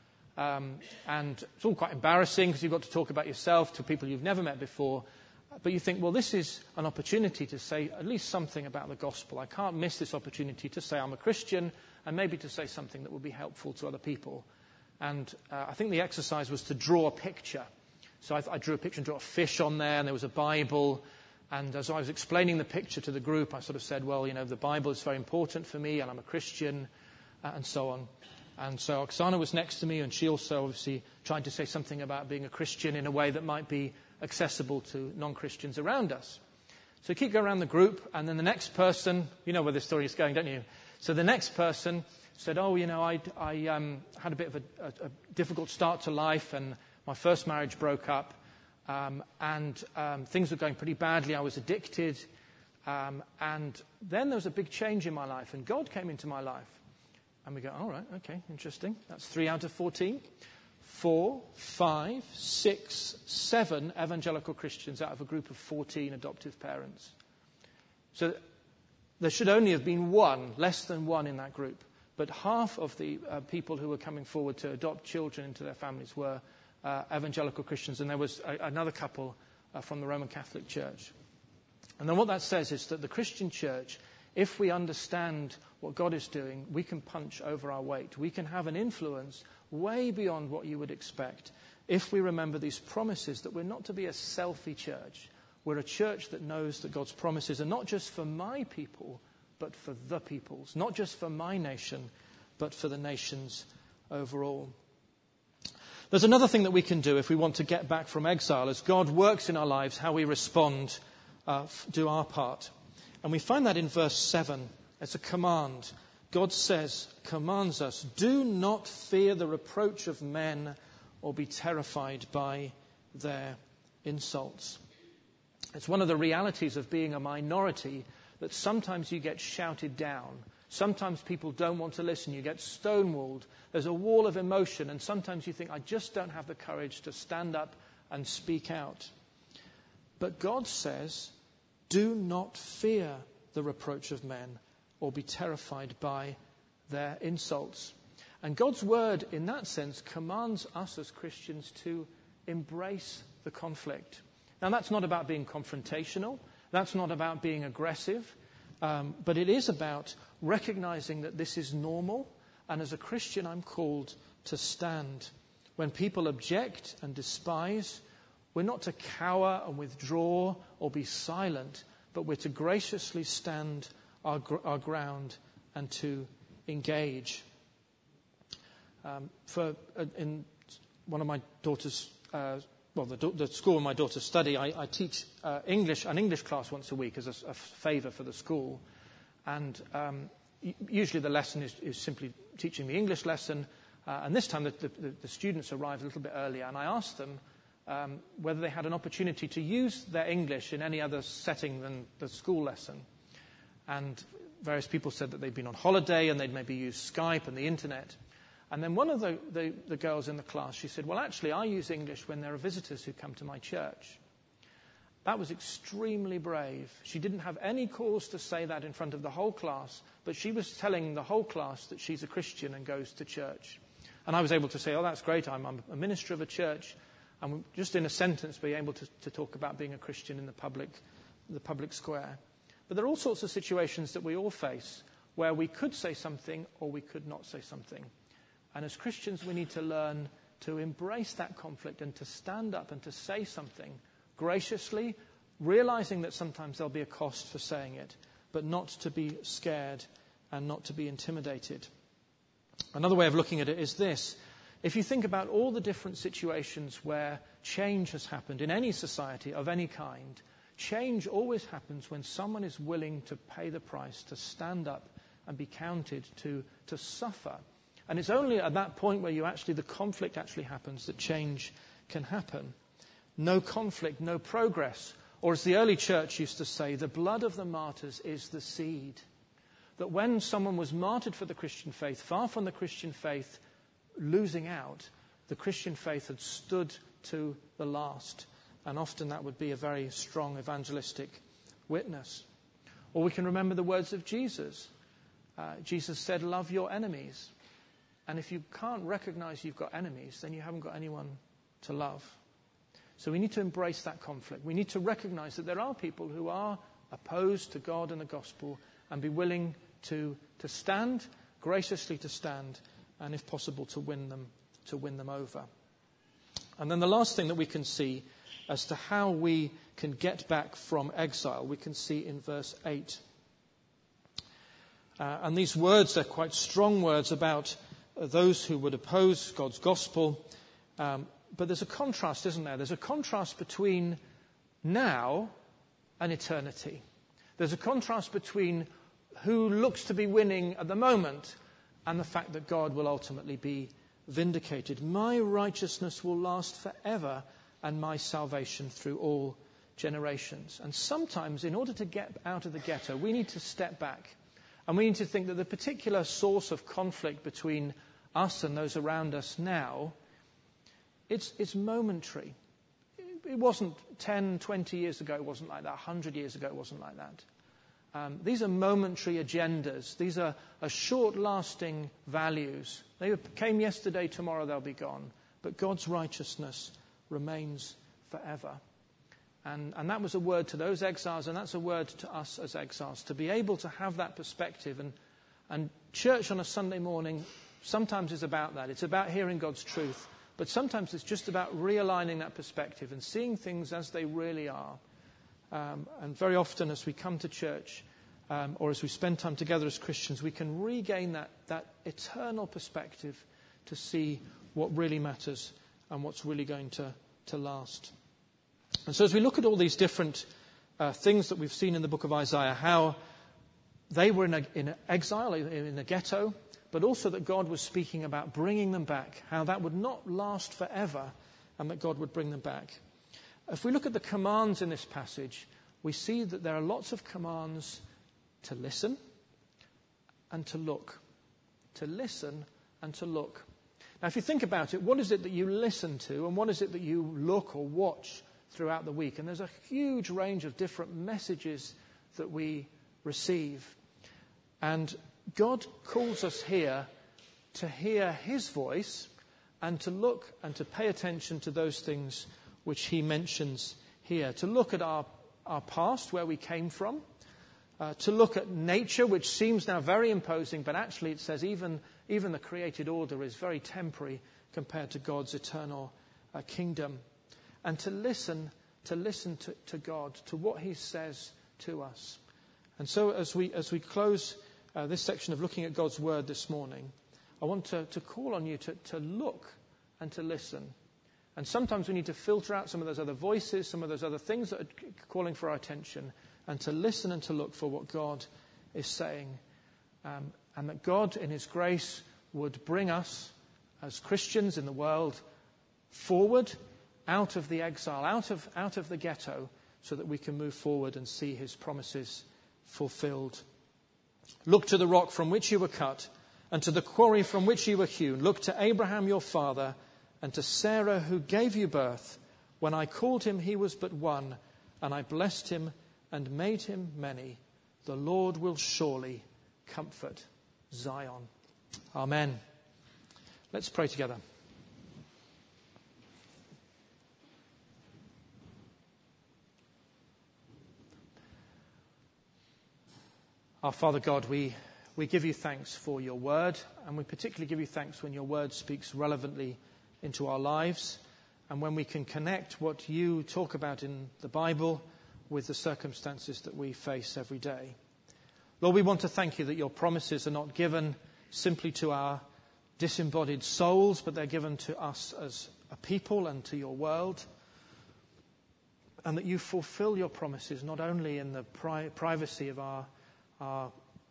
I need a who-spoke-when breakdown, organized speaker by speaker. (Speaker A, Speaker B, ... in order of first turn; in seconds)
Speaker A: 0.4-5.0, 5.6-14.5, 15.0-17.7, 18.2-26.9, 27.4-36.4, 37.0-52.3, 52.9-56.8, 57.5-60.2, 60.8-67.1, 68.1-68.4, 69.2-81.1, 82.0-104.7, 106.1-112.7, 113.2-124.8, 125.7-139.1, 140.2-141.3, 141.9-146.4, 146.9-168.0, 168.5-177.4, 179.0-188.8, 189.5-203.1, 203.9-208.2, 208.7-214.2, 215.2-238.1, 238.7-251.9, 252.9-272.8, 273.4-279.2, 280.0-283.6, 284.2-292.5, 293.1-294.9, 295.6-297.5, 298.3-302.4, 303.2-315.7, 316.8-323.2, 325.2-334.2, 334.8-335.5, 336.2-337.0, 337.6-360.1, 361.3-362.6, 363.2-367.4, 368.1-378.8, 379.6-385.1, 385.7-395.0, 395.7-408.1, 409.1-410.5, 411.0-413.2, 414.1-423.0, 423.7-428.0, 428.6-429.2, 430.5-431.2, 431.9-433.7, 434.2-444.0, 444.8-447.1, 447.7-449.3, 449.8-457.2, 458.0-467.2, 467.8-472.4, 473.0-480.9, 481.6-489.6, 490.2-495.4, 496.1-503.6, 504.7-521.5, 522.1-522.6, 523.7-524.4, 533.8-548.0, 548.8-552.4, 553.0-557.5, 559.2-563.1, 563.6-563.9